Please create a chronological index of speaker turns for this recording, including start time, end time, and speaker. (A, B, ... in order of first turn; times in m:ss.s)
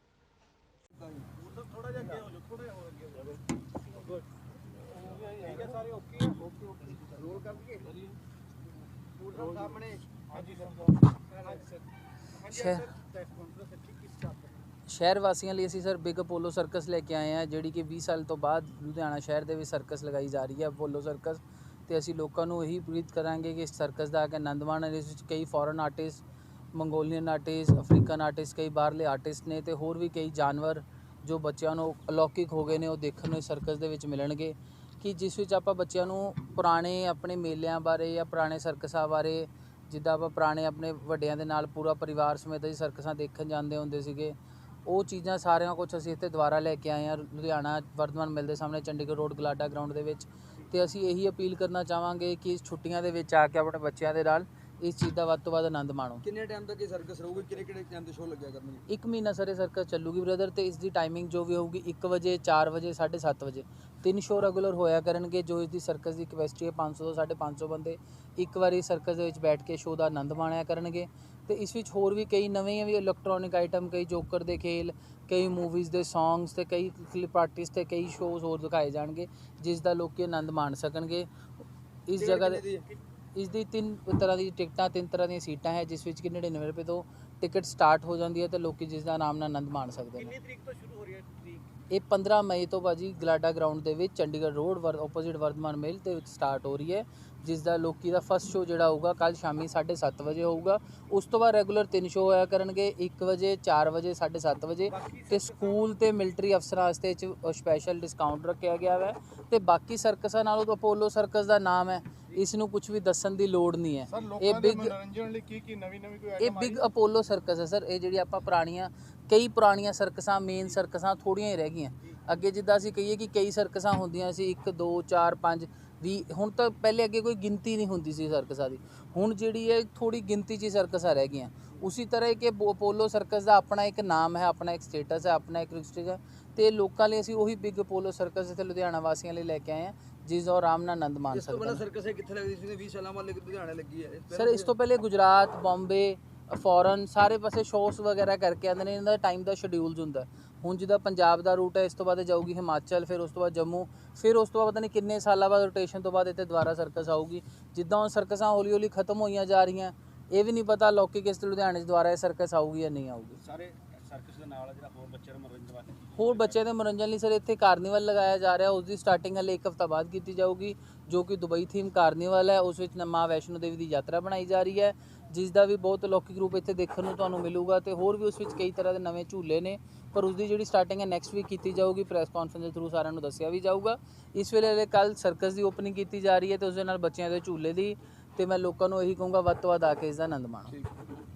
0:01.0-0:01.3 A
0:05.2-0:06.5 B
0:05.5-0:05.7 A
0:07.1-0:07.8 A
0:09.2-0:10.0 A
0:10.3-0:11.6 B
0:12.4-0:12.9 C
0:13.2-0:14.3 B
0:14.9-0:26.2 C
0:26.7-0:56.2 C
0:56.2-0:58.8 A
0:58.9-1:21.3 C
1:22.1-1:22.6 C
1:22.1-1:22.8 A
1:23.3-1:30.4 C
1:31.9-1:55.0 C
1:54.1-1:56.8 B
1:56.4-2:21.8 C
2:21.3-2:24.7 A
2:24.3-2:43.4 C
2:43.4-2:46.5 A
2:46.1-3:10.8 C